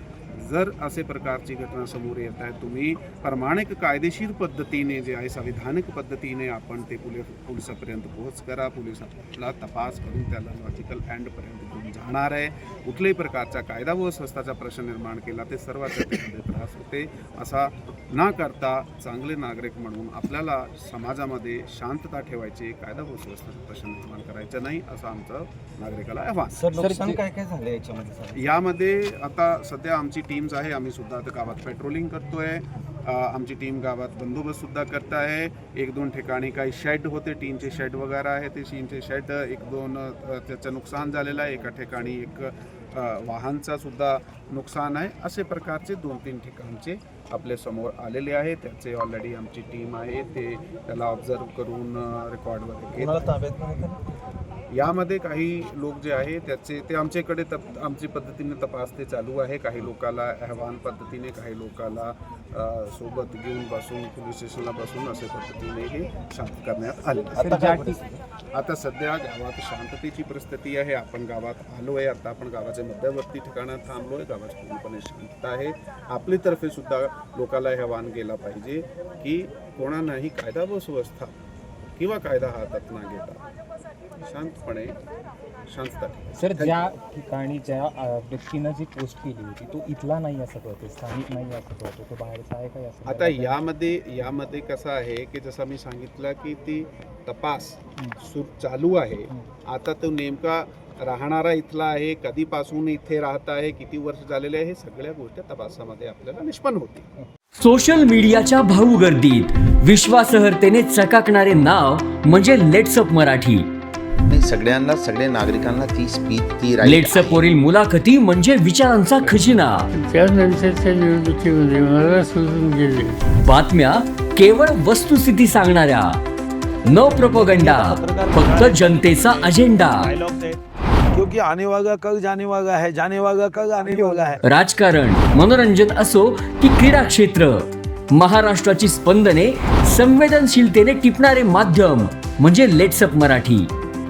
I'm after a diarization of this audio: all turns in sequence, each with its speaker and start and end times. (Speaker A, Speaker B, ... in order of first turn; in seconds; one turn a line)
Speaker A: 0.3-27.1
Speaker B: 26.6-27.1
Speaker C: 26.8-27.1
Speaker D: 27.0-28.3
Speaker A: 28.3-53.4
Speaker D: 53.1-54.0
Speaker A: 54.7-81.3
Speaker E: 67.4-68.2
Speaker A: 82.0-83.4
Speaker A: 84.2-85.0
Speaker A: 85.7-86.8
Speaker E: 86.4-93.6
Speaker A: 93.1-107.1
Speaker F: 107.6-113.7
Speaker C: 114.3-117.5
Speaker F: 116.8-119.9
Speaker G: 119.9-123.2
Speaker F: 123.4-126.2
Speaker F: 126.8-130.1
Speaker B: 127.0-130.6
Speaker B: 131.1-134.4
Speaker E: 134.0-134.3
Speaker F: 134.4-143.7